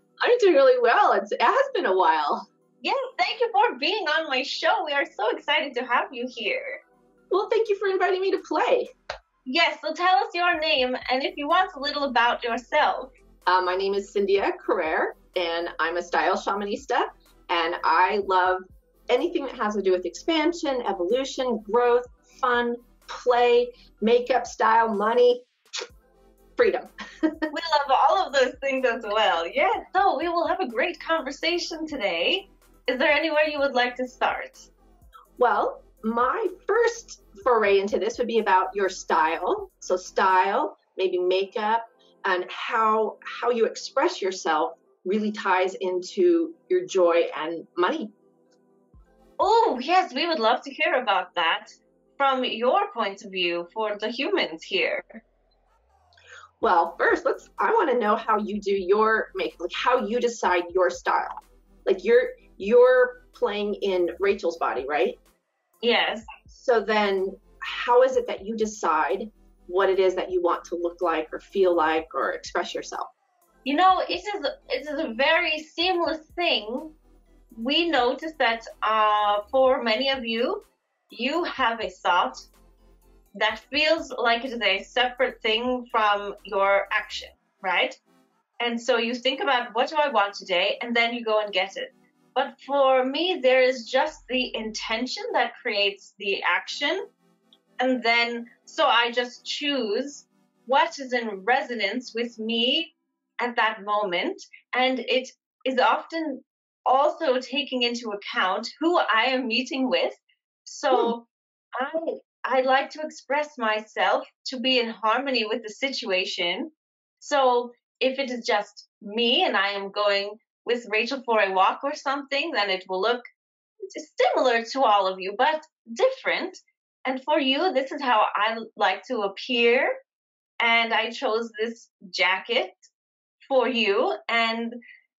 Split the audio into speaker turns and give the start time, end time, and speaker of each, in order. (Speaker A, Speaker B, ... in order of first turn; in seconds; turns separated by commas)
Speaker A: 0.2-2.4, Speaker B: 2.8-6.8, Speaker A: 7.3-8.9, Speaker B: 9.4-13.1, Speaker A: 13.5-25.4, Speaker A: 26.6-27.5, Speaker B: 27.5-34.7, Speaker A: 35.4-48.1, Speaker B: 49.4-55.2, Speaker A: 56.6-61.3, Speaker A: 61.9-65.2, Speaker B: 65.8-66.3, Speaker A: 66.5-73.1, Speaker B: 73.6-76.9, Speaker B: 77.5-82.5, Speaker B: 83.3-88.0, Speaker B: 88.6-97.0, Speaker B: 97.8-123.2, Speaker B: 123.9-129.9, Speaker B: 130.6-132.8, Speaker B: 133.4-134.8